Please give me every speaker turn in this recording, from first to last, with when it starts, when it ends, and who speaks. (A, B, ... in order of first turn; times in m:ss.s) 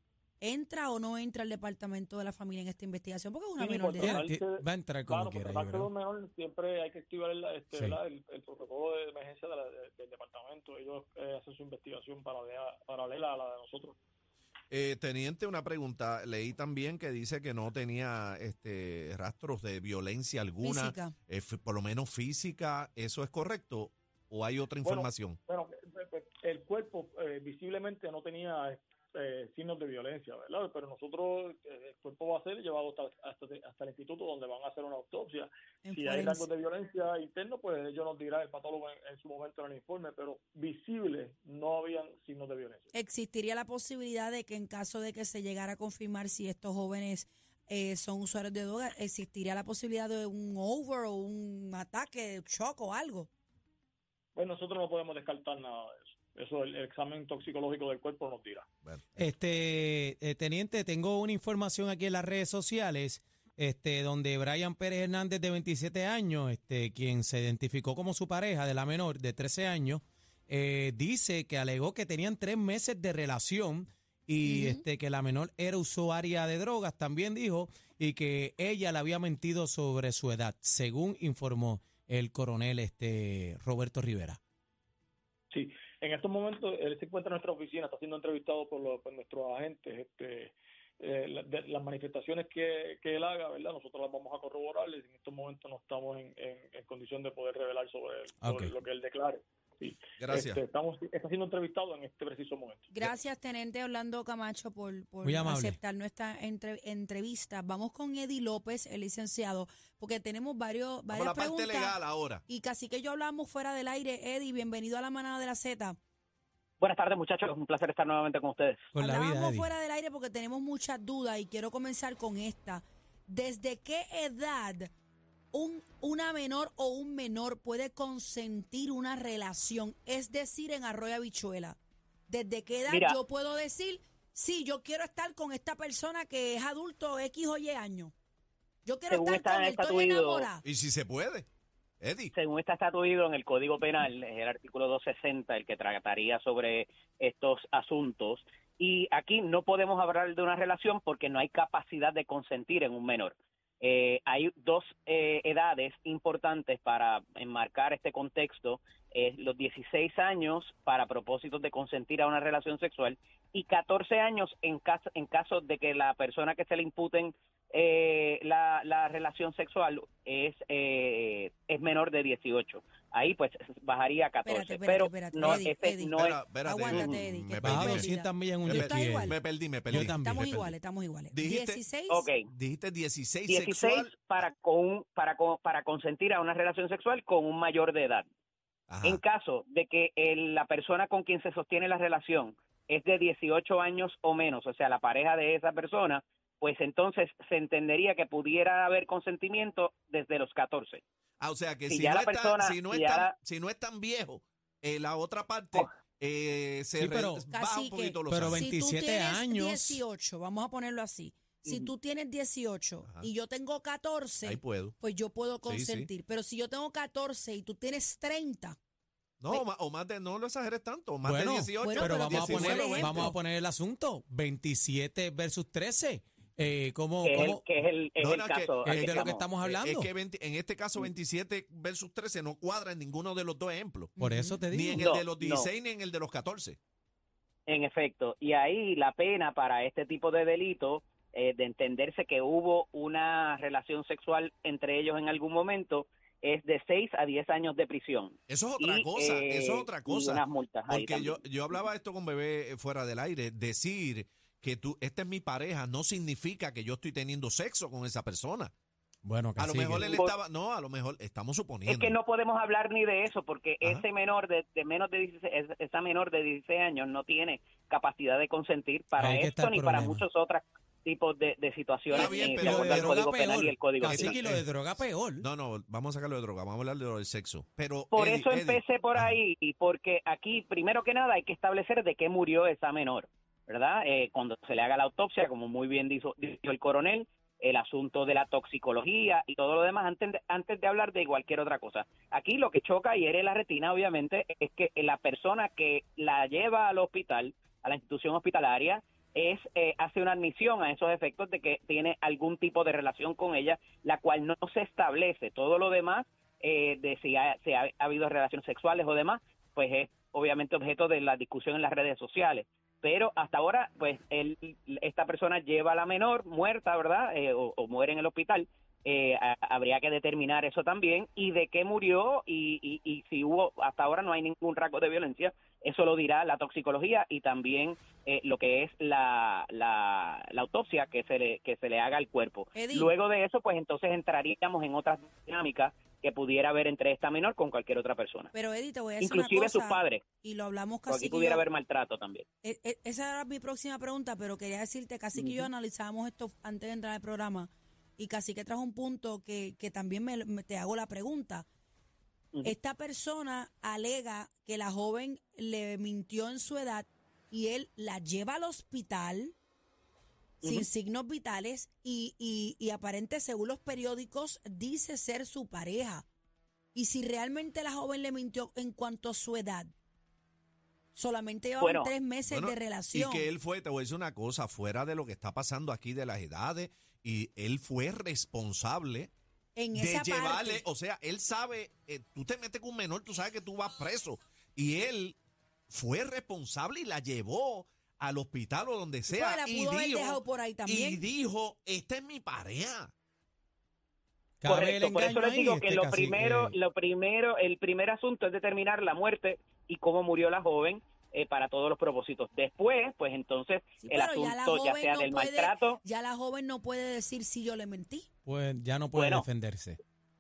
0:00.4-0:04.3 A
0:03.6-0:14.0 B
0:04.0-0:05.9 C
0:07.7-0:08.0 C
0:14.7-0:25.4 D
0:20.6-0:21.2 A
0:24.8-0:42.9 B
0:35.8-0:36.5 A
0:42.9-0:53.3 A
0:54.4-0:58.7 B
0:59.2-1:24.4 C
1:14.4-1:14.8 A
1:25.5-1:43.1 B
1:38.4-1:38.7 C
1:40.2-1:40.6 D
1:42.9-1:56.0 A
1:45.2-1:45.8 C
1:51.1-1:52.4 D
1:56.8-1:58.9 E
1:59.0-1:59.7 C
1:59.0-2:04.9 A
2:05.5-2:11.8 A
2:12.3-2:18.1 A
2:12.9-2:13.2 E
2:18.8-2:20.6 A
2:19.1-2:20.5 E
2:20.6-2:21.5 D
2:22.0-2:22.3 D
2:22.3-2:57.2 E
2:54.4-2:59.4 A
2:56.1-2:58.1 D
2:57.6-2:59.3 C
2:58.7-3:00.7 D
2:59.9-3:00.6 C
2:59.9-3:02.3 A
3:01.3-3:01.8 D
3:02.1-3:02.5 E
3:02.5-3:04.1 D
3:03.5-3:08.3 E
3:08.9-3:09.2 D
3:09.0-3:21.0 E
3:21.4-3:28.7 D
3:21.9-3:23.3 E
3:27.0-3:27.4 C
3:27.5-3:38.8 A
3:28.3-3:30.0 C
3:33.0-3:33.3 D
3:34.4-3:35.0 D
3:35.6-3:36.1 D
3:39.4-3:43.4 D
3:41.2-3:47.6 C
3:41.8-3:43.3 A
3:47.2-3:49.7 E
3:48.2-3:54.2 D
3:48.8-3:50.1 C
3:54.2-3:54.6 A
3:54.2-3:55.0 C
3:54.7-3:56.8 D
3:55.0-3:55.7 E
3:57.7-4:11.4 E
4:08.5-4:18.7 D
4:19.2-4:20.1 C
4:19.6-4:22.2 D
4:20.0-4:20.3 E
4:21.9-4:34.3 E
4:29.2-4:30.2 C
4:32.1-4:33.2 D
4:32.1-4:35.4 C
4:34.0-4:34.6 D
4:35.4-4:39.4 D
4:38.1-5:38.5 E
5:32.8-5:33.1 A
5:38.5-5:41.6 A
5:39.2-5:40.2 E
5:41.1-5:42.4 E
5:42.6-5:51.7 A
5:45.4-5:45.7 E
5:52.6-5:59.6 A
6:00.6-6:00.9 E
6:00.6-6:06.3 A
6:06.9-6:09.9 A
6:11.1-6:13.5 A
6:11.8-6:12.1 E
6:12.5-6:19.3 D
6:19.8-6:20.8 A
6:19.9-6:25.4 D
6:25.9-6:33.1 D
6:29.3-6:31.2 A
6:34.6-6:36.8 C
6:34.6-6:46.0 E
6:44.0-6:48.3 A
6:48.5-6:50.0 C
6:49.1-6:49.4 E